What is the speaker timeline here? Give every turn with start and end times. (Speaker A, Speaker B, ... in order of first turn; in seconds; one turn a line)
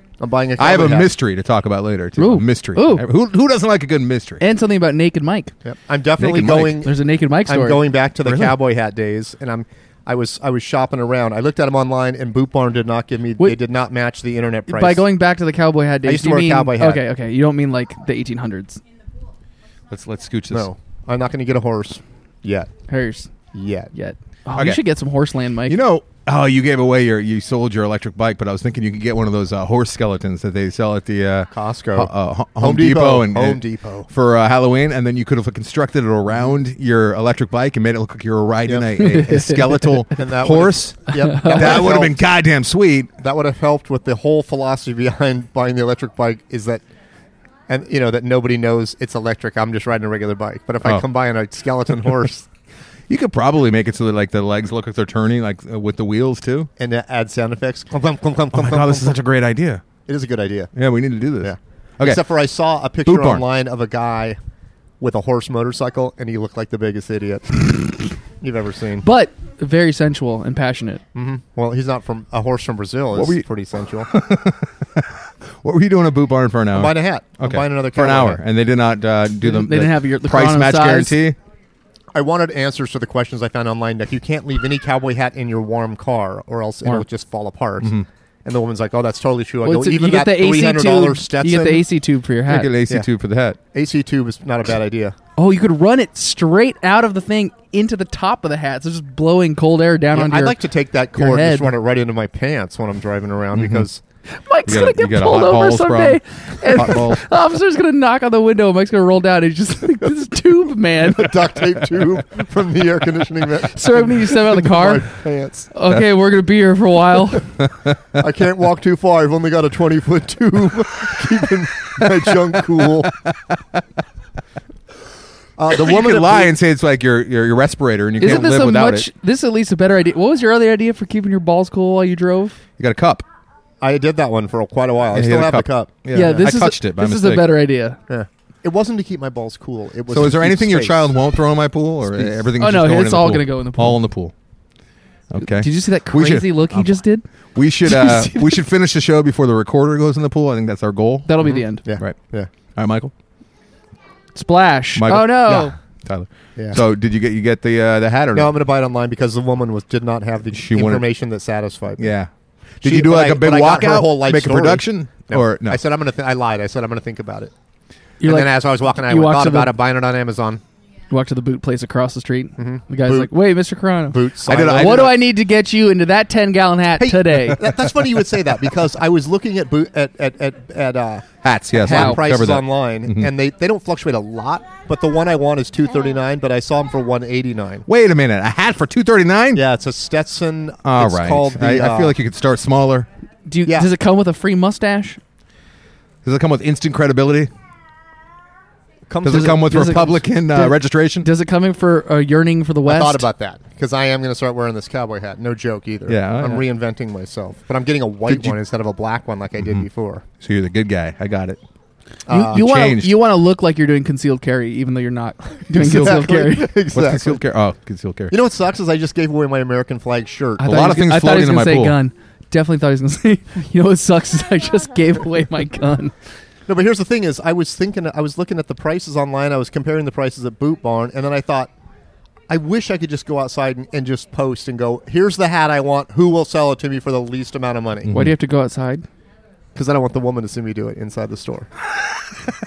Speaker A: 0.2-1.1
Speaker B: 0.6-4.4
Speaker C: 2.2-3.0
Speaker C: 4.4-5.5
Speaker A: 5.6-15.0
Speaker B: 6.2-6.8
Speaker C: 6.8-7.8
Speaker B: 8.2-8.5
Speaker C: 14.7-18.8
Speaker A: 16.1-17.0
Speaker B: 19.9-20.7
Speaker A: 20.5-22.7
Speaker C: 22.9-23.3
Speaker A: 23.5-23.9
Speaker C: 23.9-25.8
Speaker B: 25.7-43.2
Speaker A: 31.5-34.1
Speaker C: 39.0-39.9
Speaker A: 40.1-42.2
Speaker C: 41.1-41.8
Speaker A: 43.2-46.8
Speaker A: 47.7-52.5
Speaker B: 53.1-56.7
Speaker A: 56.8-59.2
Speaker B: 58.5-59.8
Speaker A: 60.1-60.7
Speaker B: 60.7-62.2
Speaker A: 61.4-64.4
Speaker B: 63.0-63.4
Speaker A: 65.0-69.0
Speaker C: 69.0-71.0
Speaker A: 71.1-74.1
Speaker B: 73.1-73.4
Speaker B: 74.1-81.3
Speaker A: 76.7-78.4
Speaker C: 79.4-81.2
Speaker A: 82.1-91.8
Speaker B: 87.8-88.0
Speaker C: 89.6-92.7
Speaker B: 92.5-93.6
Speaker A: 93.7-95.2
Speaker C: 95.4-100.6
Speaker A: 100.1-104.0
Speaker C: 101.2-101.7
Speaker B: 103.5-103.9
Speaker C: 104.3-111.5
Speaker B: 104.7-107.3
Speaker A: 111.1-115.7
Speaker C: 113.7-115.0
Speaker C: 115.7-117.5
Speaker A: 118.1-123.1
Speaker B: 123.0-123.8
Speaker A: 125.6-126.5
Speaker B: 125.7-129.1
Speaker C: 128.2-132.6
Speaker B: 132.8-133.2
Speaker A: 133.8-136.0
Speaker B: 135.1-137.6
Speaker C: 136.1-138.0
Speaker A: 138.1-141.1
Speaker B: 140.1-144.3
Speaker C: 142.6-144.0
Speaker B: 145.3-146.9
Speaker C: 145.4-147.2
Speaker B: 147.5-151.4
Speaker C: 147.8-148.6
Speaker C: 151.2-151.8
Speaker A: 151.4-152.5
Speaker B: 152.7-153.1
Speaker C: 154.3-155.7
Speaker B: 154.9-158.5
Speaker A: 156.6-156.8
Speaker A: 158.3-162.1
Speaker B: 160.5-161.1
Speaker B: 162.0-162.3
Speaker B: 162.8-165.8
Speaker A: 162.8-167.5
Speaker C: 168.2-169.7
Speaker A: 168.2-170.6
Speaker C: 171.1-174.2
Speaker A: 172.6-173.3
Speaker A: 174.1-175.2
Speaker B: 174.4-175.1
Speaker C: 174.7-177.7
Speaker A: 177.0-187.8
Speaker B: 181.4-183.3
Speaker C: 181.9-182.2
Speaker B: 187.8-189.6
Speaker A: 189.5-192.2
Speaker B: 190.8-193.1
Speaker C: 193.4-195.2
Speaker B: 196.2-197.5
Speaker A: 199.1-199.9
Speaker B: 199.2-201.3
Speaker C: 199.3-203.2
Speaker A: 202.8-210.2
Speaker B: 206.1-206.6
Speaker B: 208.3-208.6
Speaker B: 209.6-209.8
Speaker B: 210.4-211.6
Speaker A: 212.3-212.7
Speaker C: 212.3-216.7
Speaker B: 212.5-213.2
Speaker B: 215.8-216.3
Speaker A: 215.8-217.4
Speaker B: 216.9-218.3
Speaker A: 218.3-220.7
Speaker C: 220.6-226.1
Speaker B: 220.6-221.9
Speaker A: 226.7-231.7
Speaker A: 232.5-238.1
Speaker B: 238.0-238.3
Speaker C: 238.1-239.1
Speaker A: 239.7-241.7